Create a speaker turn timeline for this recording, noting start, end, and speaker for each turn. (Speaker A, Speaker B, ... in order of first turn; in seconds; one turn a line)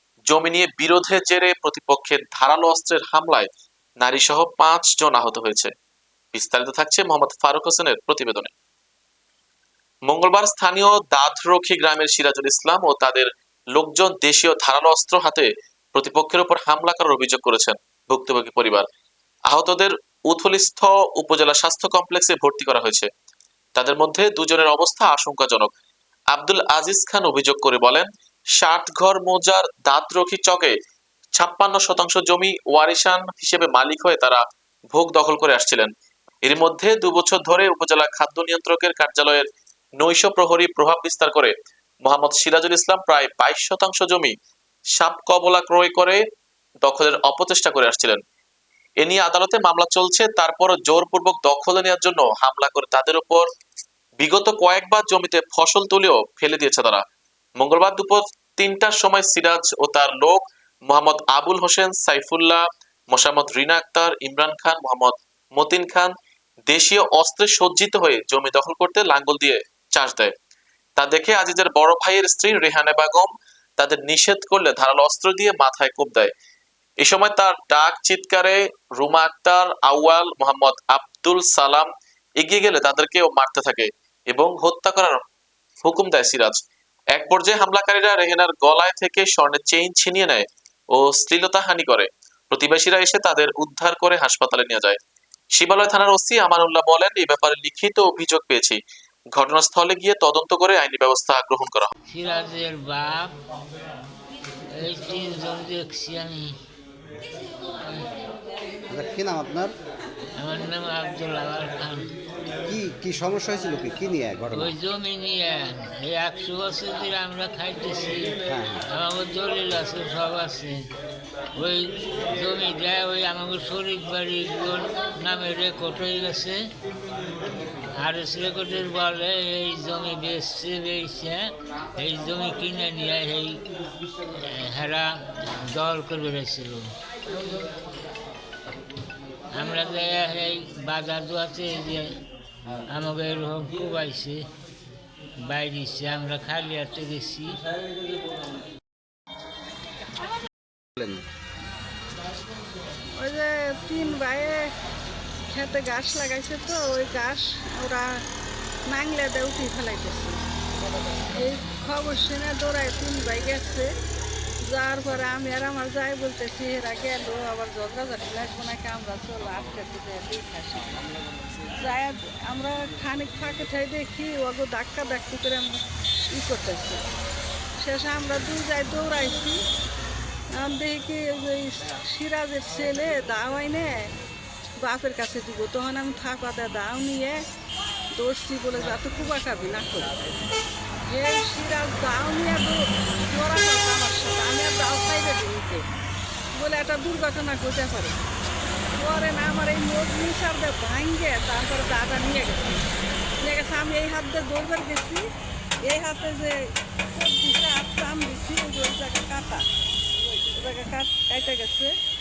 Speaker A: 0.3-5.7
Speaker A: 6.3-8.5
Speaker A: 10.1-18.9
Speaker A: 19.5-23.1
Speaker A: 23.8-25.7
Speaker A: 26.3-30.8
Speaker A: 31.4-35.9
Speaker A: 36.4-39.5
Speaker A: 40.0-41.5
Speaker A: 42.0-44.3
Speaker A: 45.0-46.2
Speaker A: 46.8-48.2
Speaker A: 49.0-53.5
Speaker A: 54.2-57.0
Speaker A: 57.6-66.1
Speaker A: 66.7-70.3
Speaker A: 71.0-76.3
Speaker A: 77.0-85.2
Speaker A: 85.8-86.6
Speaker A: 87.1-95.0
Speaker A: 95.5-98.8
Speaker A: 99.3-101.9
Speaker B: 102.1-103.3
Speaker B: 104.7-106.5
Speaker C: 108.9-109.7
Speaker B: 110.4-112.1
Speaker C: 112.7-114.7
Speaker B: 114.5-118.4
Speaker C: 118.5-118.8
Speaker B: 118.9-120.8
Speaker B: 121.6-126.6
Speaker B: 127.9-133.6
Speaker B: 134.3-136.9
Speaker B: 139.5-142.1
Speaker B: 142.9-144.4
Speaker B: 145.4-147.6
Speaker C: 150.9-151.2
Speaker D: 153.2-154.6
Speaker D: 155.5-158.2
Speaker D: 158.8-160.4
Speaker D: 161.3-163.9
Speaker D: 164.6-171.0
Speaker D: 171.8-175.8
Speaker D: 176.3-177.0
Speaker D: 177.8-179.6
Speaker D: 180.5-184.0
Speaker D: 184.8-187.4
Speaker D: 188.1-190.1
Speaker D: 191.1-195.8
Speaker D: 196.6-198.1
Speaker D: 199.0-202.8
Speaker D: 203.4-205.2
Speaker D: 205.8-206.6
Speaker D: 207.1-209.6
Speaker D: 210.6-211.9